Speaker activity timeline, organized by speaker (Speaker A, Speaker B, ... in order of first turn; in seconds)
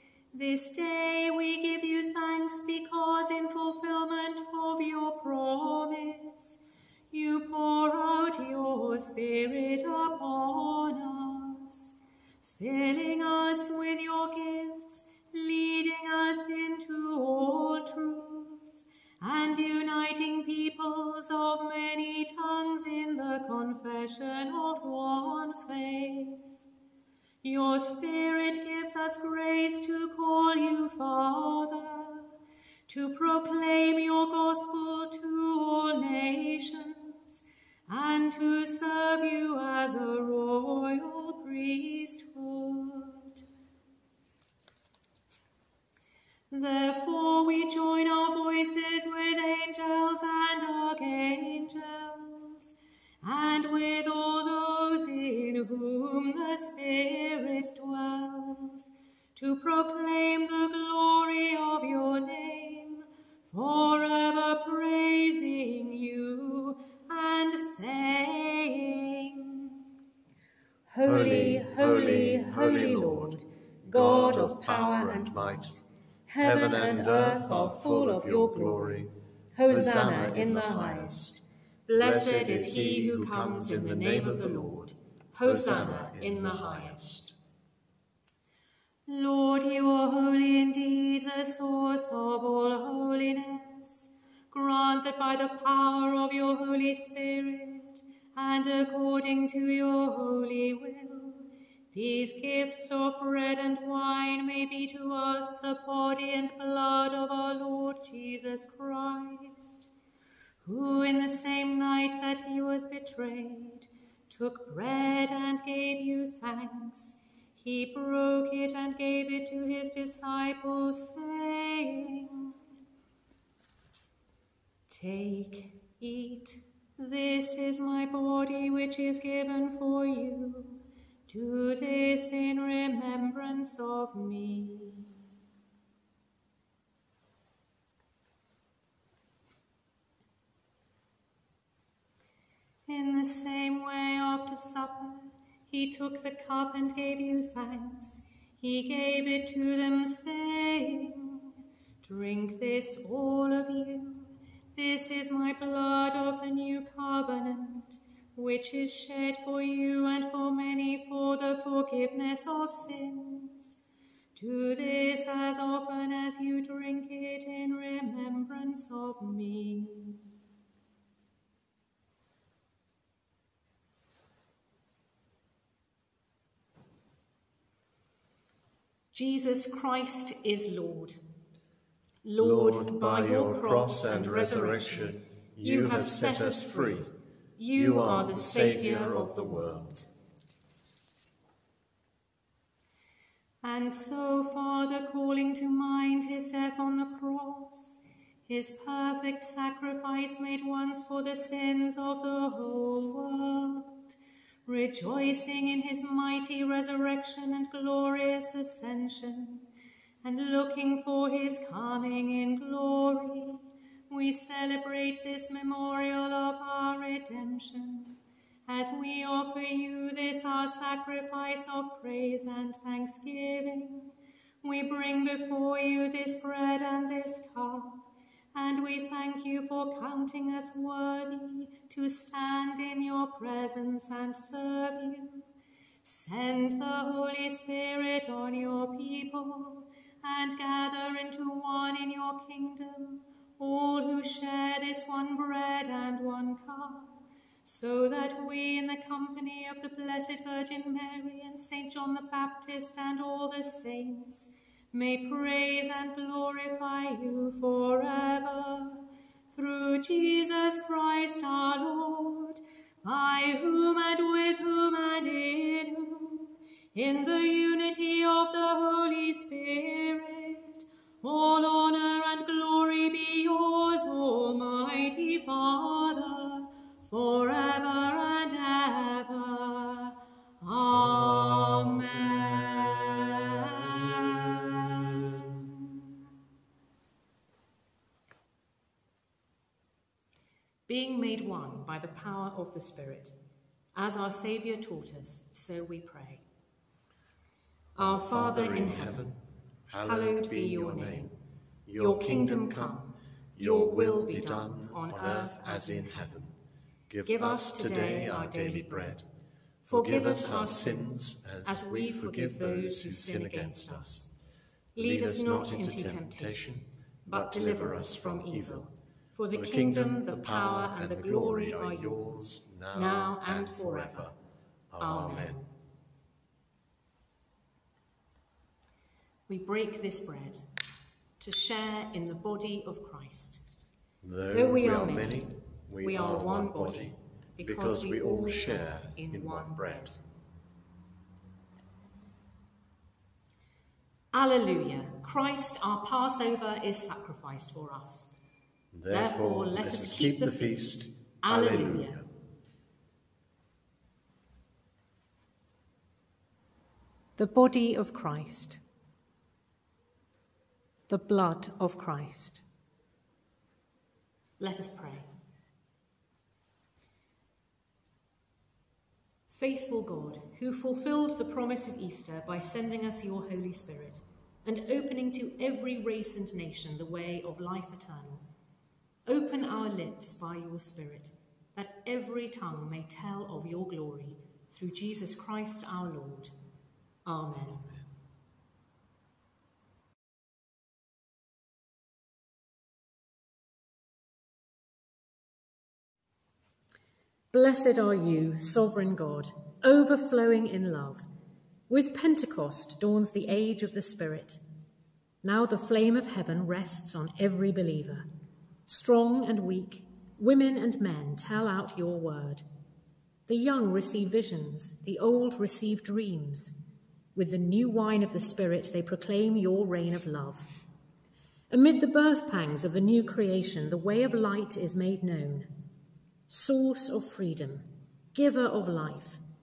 Speaker A: 0.3-6.6, 7.1-11.9, 12.5-26.6, 27.4-32.3, 32.9-43.4, 46.5-69.7, 70.9-87.1, 89.1-109.9, 110.7-122.5, 124.9-135.1, 142.9-151.5, 152.0-163.8, 164.3-170.2, 179.1-181.2, 182.2-190.1, 193.6-204.2, 204.7-209.7, 210.2-235.5, 236.0-284.4, 290.9-293.4, 293.9-296.4, 298.0-299.3, 300.0-301.3, 302.0-306.4, 307.3-309.2, 309.9-311.1, 311.6-314.3, 315.0-316.7, 317.3-324.3, 325.0-325.7, 329.5-330.6, 331.4-333.6, 334.5-335.5, 336.0-340.2, 344.3-348.3, 349.1-350.8, 351.4-352.2, 357.4-358.8, 361.1-362.6, 364.6-365.3, 369.5-378.4, 379.3-386.5, 387.3-387.9, 397.5-401.2, 401.9-404.6, 405.4-408.3, 408.9-412.6, 413.5-416.8, 417.4-420.7, 421.7-425.7, 426.5-429.4
Speaker B: 71.0-75.8, 76.4-79.1, 79.7-81.4, 82.0-87.3, 182.4-187.1, 187.7-190.1, 280.9-283.0, 298.0-299.4, 299.9-301.3, 301.9-303.0, 303.6-306.5, 307.1-309.2, 309.8-314.3, 315.0-318.9, 319.5-324.3, 324.9-325.6, 334.2-340.1, 348.9-352.2